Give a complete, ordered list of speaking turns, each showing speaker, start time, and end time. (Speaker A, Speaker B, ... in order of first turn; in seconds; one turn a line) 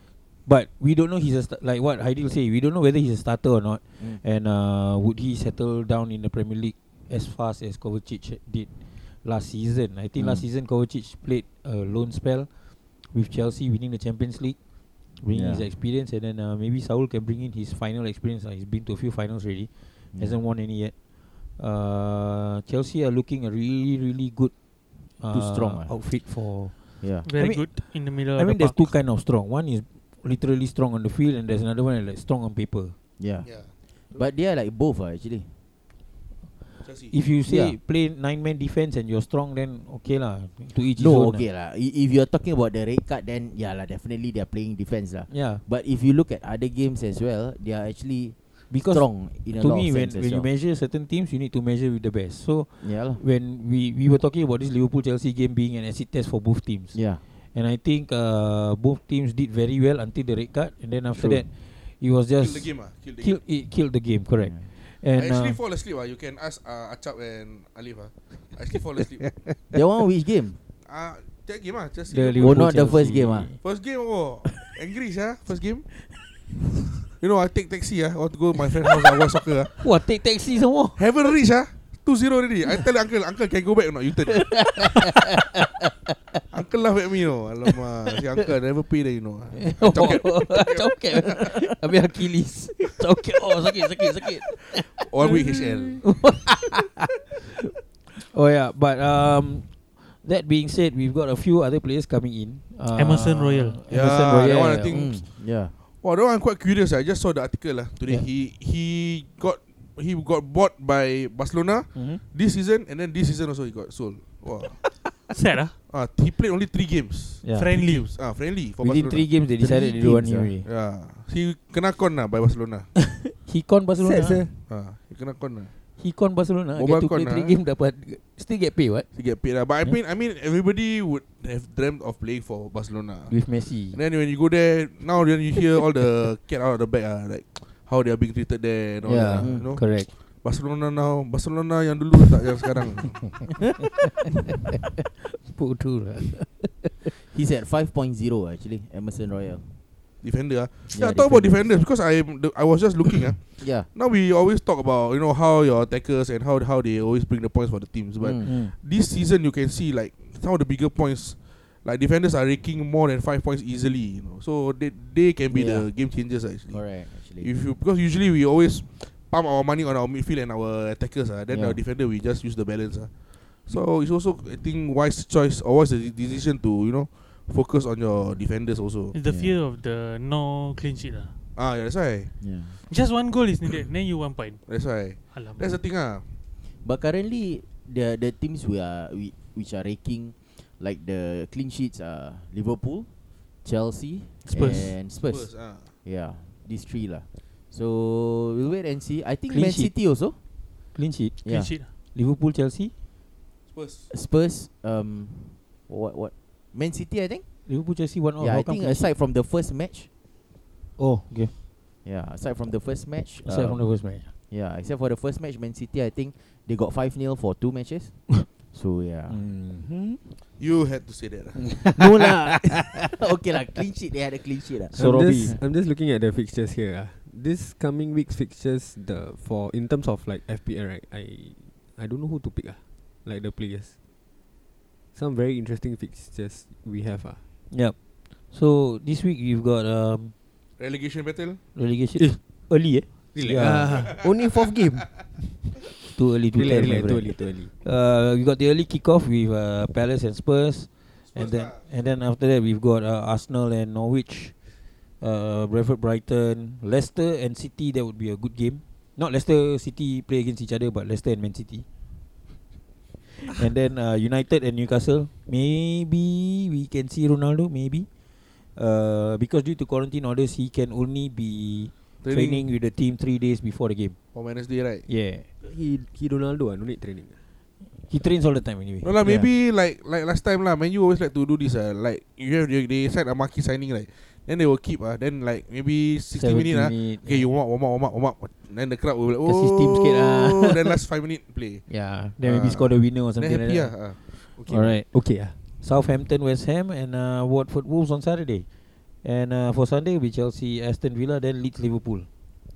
Speaker A: 0.5-12.5
Speaker B: 10.2-10.4
Speaker A: 13.0-14.6
Speaker A: 15.1-20.9
Speaker B: 15.3-15.7
Speaker A: 21.5-24.5
Speaker A: 25.1-32.9
Speaker B: 25.3-26.0
Speaker B: 27.0-27.3
Speaker C: 27.2-28.9
Speaker B: 33.2-35.5
Speaker D: 33.4-34.2
Speaker D: 36.8-37.2
Speaker A: 37.1-41.4
Speaker B: 37.4-37.8
Speaker B: 41.0-50.5
Speaker A: 45.3-45.6
Speaker A: 48.7-57.0
Speaker B: 52.8-53.2
Speaker B: 56.9-57.2
Speaker A: 57.5-65.6
Speaker D: 62.4-63.4
Speaker D: 65.2-69.4
Speaker B: 69.7-70.6
Speaker D: 70.8-75.8
Speaker A: 72.1-73.6
Speaker B: 72.4-73.5
Speaker D: 77.2-79.8
Speaker A: 79.7-81.0
Speaker D: 81.0-84.6
Speaker A: 84.3-85.7
Speaker D: 86.5-91.4
Speaker A: 89.5-97.0
Speaker D: 95.0-96.1
Speaker A: 98.2-105.0
Speaker C: 102.9-103.8
Speaker D: 103.9-114.8
Speaker B: 104.9-105.8
Speaker A: 111.9-112.2
Speaker C: 115.3-115.8
Speaker D: 115.9-119.4
Speaker A: 117.4-117.7
Speaker C: 117.5-118.1
Speaker A: 118.8-120.7
Speaker B: 119.6-120.5
Speaker D: 120.6-122.9
Speaker A: 123.0-124.4
Speaker E: 124.0-124.5
Speaker D: 124.7-125.7
Speaker A: 126.0-129.1
Speaker D: 126.7-127.5
Speaker D: 129.1-143.4
Speaker A: 133.3-134.0
Speaker A: 139.0-140.1
Speaker B: 139.4-139.7
Speaker A: 145.4-147.1
Speaker B: 147.3-149.7
Speaker D: 150.2-179.2
Speaker B: 150.9-151.8
Speaker B: 153.6-153.9
Speaker B: 158.2-158.5
Speaker A: 158.4-158.7
Speaker B: 165.5-165.9
Speaker B: 166.7-167.5
Speaker B: 171.5-171.8
Speaker C: 179.1-181.3
Speaker B: 179.2-179.5
Speaker D: 181.6-182.3
Speaker B: 182.4-182.8
Speaker C: 182.9-184.6
Speaker D: 184.7-186.3
Speaker C: 185.3-185.8
Speaker B: 186.8-193.1
Speaker B: 193.6-200.4
Speaker C: 194.5-194.9
Speaker D: 195.2-196.0
Speaker A: 199.5-199.9
Speaker A: 200.9-202.9
Speaker B: 201.4-201.7
Speaker C: 201.4-201.9
Speaker D: 203.7-204.1
Speaker B: 204.1-207.5
Speaker A: 207.7-209.1
Speaker B: 208.4-210.1
Speaker A: 211.0-211.5
Speaker B: 212.0-219.4
Speaker A: 213.4-214.3
Speaker A: 219.3-220.4
Speaker D: 220.6-221.8
Speaker A: 221.6-223.1
Speaker B: 221.9-225.6
Speaker A: 224.9-225.6
Speaker E: 224.9-233.9
Speaker E: 235.1-237.4
Speaker A: 237.7-240.3
Speaker D: 240.8-241.6
Speaker A: 241.7-244.0
Speaker E: 243.1-245.7
Speaker A: 246.1-254.6
Speaker E: 246.5-247.7
Speaker D: 251.3-251.8
Speaker A: 255.2-261.9
Speaker A: 263.4-268.1
Speaker A: 268.7-274.2
Speaker D: 272.2-272.6
Speaker D: 274.3-275.1
Speaker A: 275.1-275.4
Speaker E: 275.6-277.4
Speaker A: 278.1-279.5
Speaker D: 279.0-294.2
Speaker A: 286.3-287.6
Speaker A: 289.4-290.9
Speaker A: 291.9-298.7
Speaker E: 294.6-295.6
Speaker A: 299.2-302.3